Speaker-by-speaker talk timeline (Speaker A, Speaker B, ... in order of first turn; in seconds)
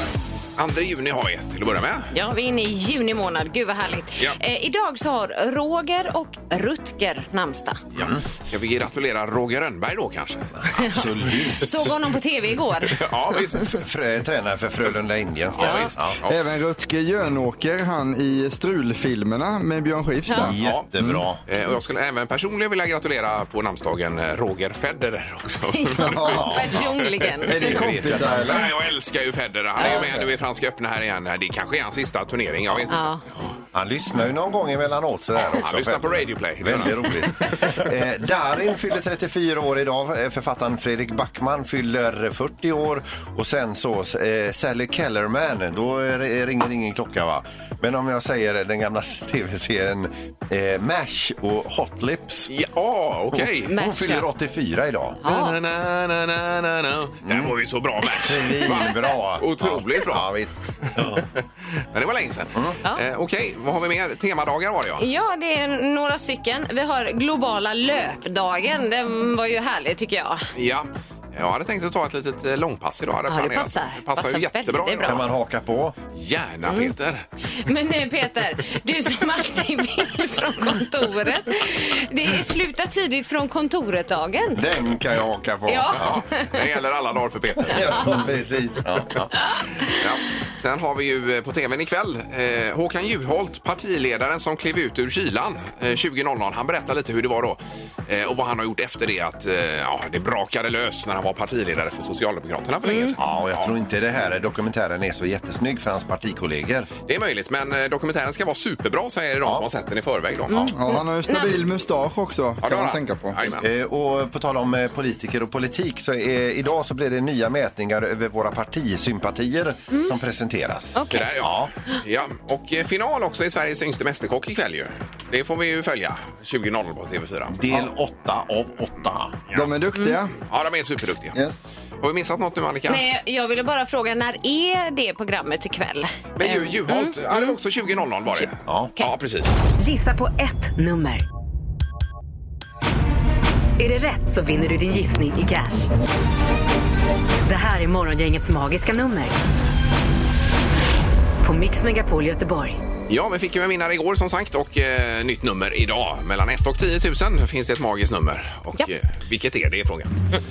Speaker A: 0.6-2.1, 8.0-10.5, 12.8-13.8, 15.6-16.3, 20.6-20.9, 21.4-33.5, 35.6-37.5, 52.5-53.8, 55.2-60.4, 61.8-65.0, 70.5-75.2, 76.1-77.2, 86.0-88.2, 89.9-103.7, 107.0-110.7, 112.6-113.7, 121.1-127.7, 130.4-131.4, 132.0-133.0, 136.4-139.5, 153.1-160.2
Speaker B: 2.1-7.8, 10.7-13.1, 15.6-15.9, 20.3-20.5, 25.7-27.8, 29.8-30.1, 32.9-33.2, 53.7-54.2, 55.2-55.5, 65.0-70.5, 73.3-75.2, 76.7-76.9, 77.5-84.6, 85.7-86.4, 87.7-88.1, 102.8-103.2, 110.5-111.6, 120.9-121.3, 132.9-137.6, 138.3-139.1
Speaker C: 7.9-8.2, 10.6-11.9, 13.7-16.2, 20.4-21.4, 26.3-26.8, 27.7-28.6, 29.8-30.2, 33.7-52.5, 53.3-55.2, 57.2-57.5, 58.1-61.3, 75.0-76.0, 84.5-86.2, 87.6-89.3, 103.2-106.9, 109.4-109.7, 113.5-121.7, 127.5-129.4, 138.7-138.9
Speaker D: 16.2-21.1, 26.0-26.5, 27.5-28.7, 110.5-113.4, 129.5-130.4, 131.3-131.6
Speaker E: 139.8-141.2, 143.8-145.9, 147.5-149.4, 151.4-152.8